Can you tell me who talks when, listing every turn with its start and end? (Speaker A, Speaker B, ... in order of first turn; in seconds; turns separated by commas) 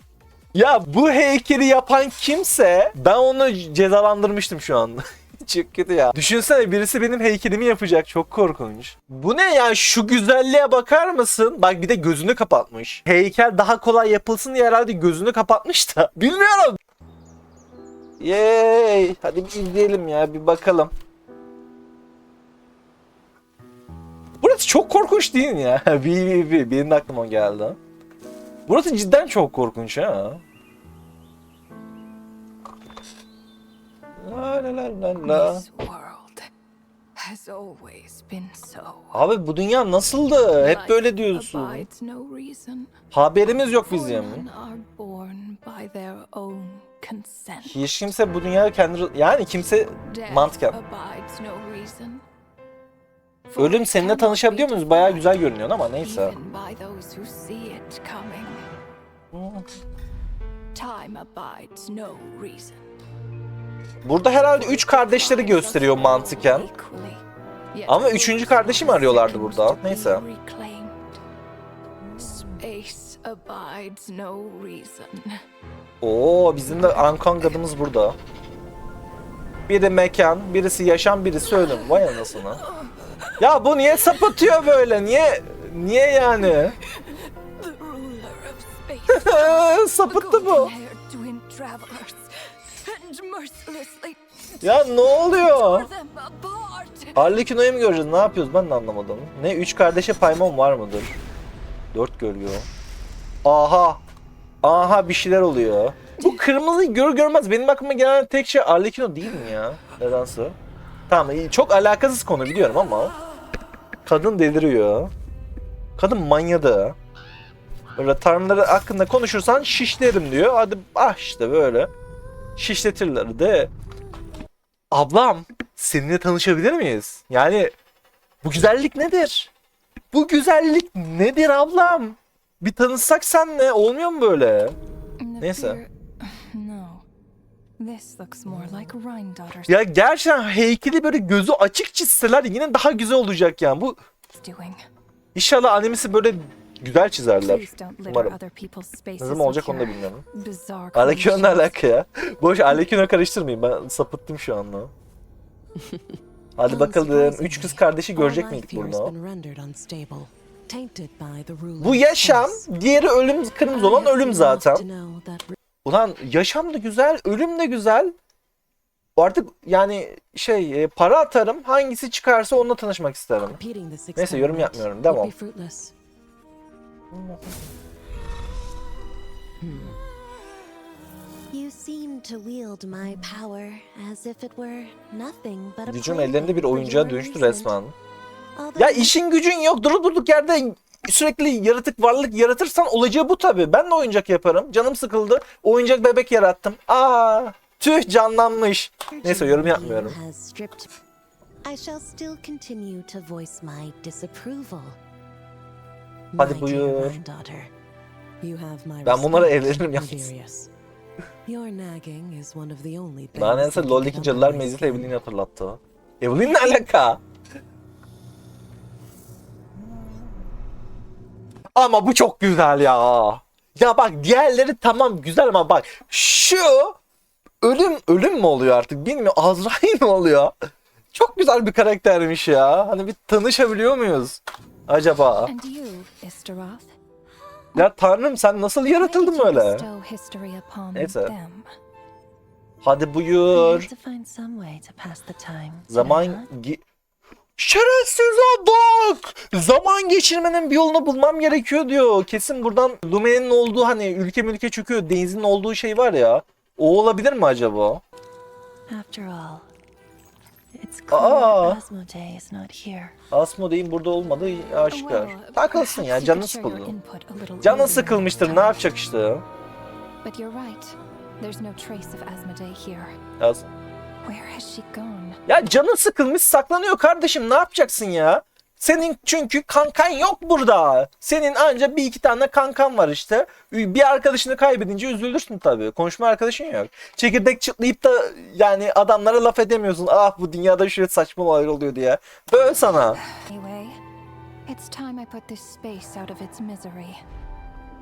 Speaker A: 0.5-16.8, Speaker A: 18.2-20.9, Speaker A: 24.4-27.8, Speaker A: 28.7-30.4, Speaker A: 34.2-35.6, Speaker B: 35.2-36.5, Speaker B: 37.2-39.2, Speaker A: 39.1-41.9, Speaker B: 40.6-42.9, Speaker A: 43.1-44.5, Speaker B: 43.8-47.8, Speaker A: 47.6-50.8, Speaker B: 50.0-52.2, Speaker B: 53.5-55.3, Speaker A: 53.6-56.3, Speaker B: 56.0-58.6, Speaker A: 59.3-59.6, Speaker B: 60.7-62.8, Speaker A: 64.0-66.7, Speaker B: 64.2-71.2, Speaker A: 67.9-70.2, Speaker B: 72.1-75.4, Speaker A: 76.0-78.2, Speaker B: 76.7-77.5, Speaker A: 79.7-82.6, Speaker B: 81.5-83.3, Speaker A: 83.4-86.8, Speaker B: 86.4-97.3, Speaker A: 89.1-90.7, Speaker A: 94.6-95.9, Speaker A: 97.1-101.2, Speaker A: 101.9-102.7, Speaker A: 103.4-104.0, Speaker A: 104.6-110.5, Speaker A: 111.1-113.1, Speaker A: 114.0-115.1, Speaker A: 116.0-117.0, Speaker A: 118.0-121.9, Speaker A: 122.6-123.7, Speaker A: 124.9-127.7, Speaker A: 128.4-129.5, Speaker A: 130.1-134.8, Speaker B: 135.2-137.0, Speaker A: 135.4-135.8, Speaker B: 137.8-139.8, Speaker A: 139.7-144.0, Speaker B: 144.3-144.8, Speaker A: 145.3-148.3, Speaker B: 147.4-151.8, Speaker A: 149.2-150.2, Speaker A: 150.9-154.9, Speaker A: 156.6-159.1, Speaker C: 156.9-162.7, Speaker A: 161.8-164.9, Speaker C: 163.6-165.6, Speaker A: 165.8-168.1, Speaker A: 169.2-173.6, Speaker C: 173.5-175.9, Speaker A: 174.2-175.3, Speaker A: 177.1-177.4, Speaker C: 179.6-180.0, Speaker C: 181.5-187.8, Speaker A: 185.9-187.9, Speaker C: 188.6-189.1, Speaker A: 188.8-200.2, Speaker C: 199.1-200.9, Speaker C: 201.6-205.0, Speaker C: 206.3-207.7, Speaker A: 206.4-207.2, Speaker C: 208.4-210.7, Speaker A: 209.0-210.3, Speaker C: 211.4-215.1, Speaker A: 213.3-217.2, Speaker A: 221.8-227.0, Speaker A: 227.6-230.5, Speaker A: 231.1-235.5, Speaker B: 235.4-236.9, Speaker A: 237.8-239.8, Speaker B: 238.9-241.7, Speaker A: 240.9-241.3, Speaker A: 242.8-243.9, Speaker B: 243.5-246.4, Speaker A: 245.9-246.8, Speaker A: 247.6-258.0, Speaker B: 258.9-259.6, Speaker B: 260.8-263.1, Speaker A: 261.1-261.8, Speaker A: 263.3-266.9, Speaker B: 264.9-268.9, Speaker A: 267.6-269.4, Speaker B: 270.2-273.2, Speaker A: 273.4-273.7, Speaker B: 274.2-275.4, Speaker A: 275.5-293.2, Speaker B: 293.2-294.0, Speaker B: 294.6-297.2